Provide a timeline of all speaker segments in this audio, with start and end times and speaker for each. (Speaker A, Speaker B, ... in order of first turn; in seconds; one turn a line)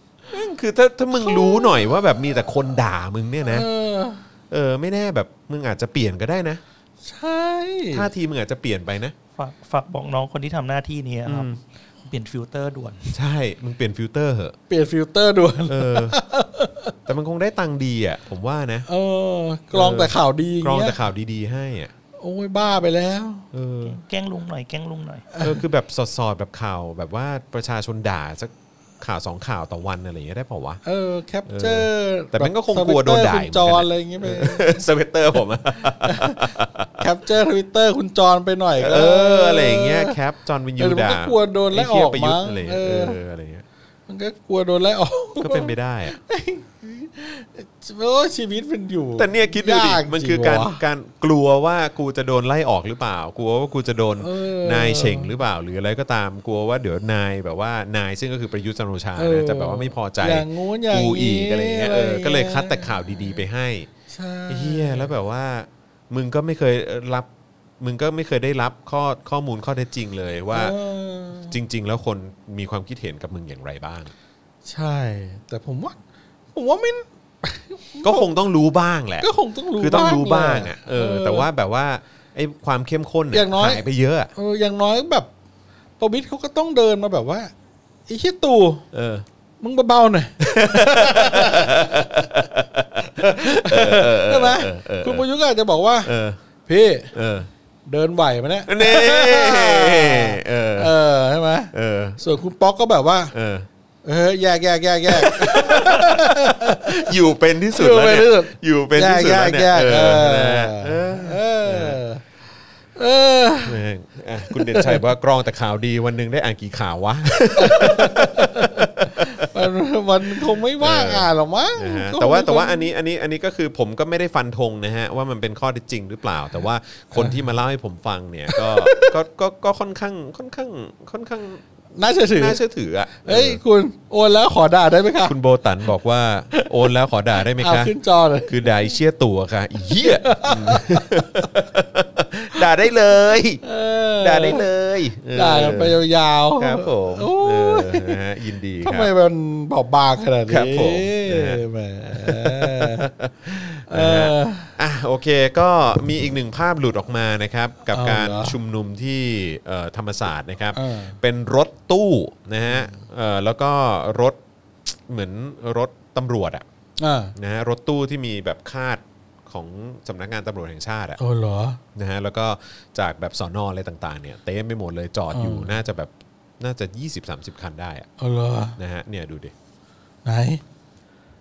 Speaker A: 0.3-3.7
Speaker B: 1.2-1.9
Speaker B: 3.4-4.2
Speaker A: 4.5-6.6
Speaker B: 7.0-8.1
Speaker A: 7.9-9.1
Speaker C: 9.3-13.1
Speaker A: 11.2-11.6
Speaker A: 13.1-14.6
Speaker B: 14.7-16.9
Speaker A: 15.7-16.2
Speaker A: 17.1-18.9
Speaker B: 18.9-21.0
Speaker A: 19.7-21.9
Speaker B: 22.2-23.5
Speaker A: 23.5-24.0
Speaker C: 23.8-25.3
Speaker B: 25.3-25.6
Speaker A: 25.4-30.8
Speaker B: 30.8-34.8
Speaker A: 31.5-37.0
Speaker B: 35.8-40.2
Speaker A: 38.8-43.6
Speaker B: 40.8-43.2
Speaker B: 44.1-50.8
Speaker A: 45.4-46.2
Speaker A: 49.2-63.9
Speaker B: 54.2-55.3
Speaker B: 59.1-63.4
Speaker B: 64.1-65.1
Speaker A: 64.5-67.3
Speaker A: 67.8-70.8
Speaker B: 70.5-71.5
Speaker A: 71.4-74.1
Speaker B: 74.7-76.0
Speaker B: 76.5-78.3
Speaker A: 78.0-84.3
Speaker B: 79.2-81.5
Speaker B: 83.3-83.8
Speaker B: 84.3-85.3
Speaker B: 86.0-87.5
Speaker B: 88.1-88.8
Speaker A: 88.9-89.2
Speaker B: 89.6-92.5
Speaker A: 90.4-95.2
Speaker B: 93.1-96.1
Speaker A: 96.0-96.4
Speaker B: 96.7-97.1
Speaker A: 97.1-97.5
Speaker B: 97.9-103.3
Speaker A: 98.7-100.9
Speaker A: 101.7-102.2
Speaker A: 103.3-103.7
Speaker B: 104.0-107.1
Speaker A: 105.1-112.0
Speaker B: 107.7-112.2
Speaker B: 113.0-113.8
Speaker A: 113.7-119.7
Speaker B: 114.5-115.0
Speaker B: 117.6-122.9
Speaker A: 120.3-131.6
Speaker B: 127.1-127.4
Speaker B: 128.5-129.1
Speaker B: 131.9-132.6
Speaker A: 132.3-133.6
Speaker B: 133.2-135.3
Speaker A: 135.2-137.9
Speaker B: 136.5-136.9
Speaker B: 137.4-138.7
Speaker A: 138.4-143.6
Speaker B: 139.9-141.5
Speaker B: 143.6-144.7
Speaker A: 144.2-146.0
Speaker B: 145.3-148.2
Speaker A: 146.6-149.1
Speaker B: 148.8-153.1
Speaker A: 150.5-166.7
Speaker B: 153.9-154.8
Speaker B: 157.9-158.6
Speaker B: 160.7-161.2
Speaker B: 162.7-162.9
Speaker B: 167.0-167.3
Speaker A: 167.3-171.2
Speaker B: 171.2-171.8
Speaker A: 171.9-178.1
Speaker B: 175.3-175.8
Speaker B: 178.2-178.8
Speaker A: 178.8-179.5
Speaker B: 180.2-180.6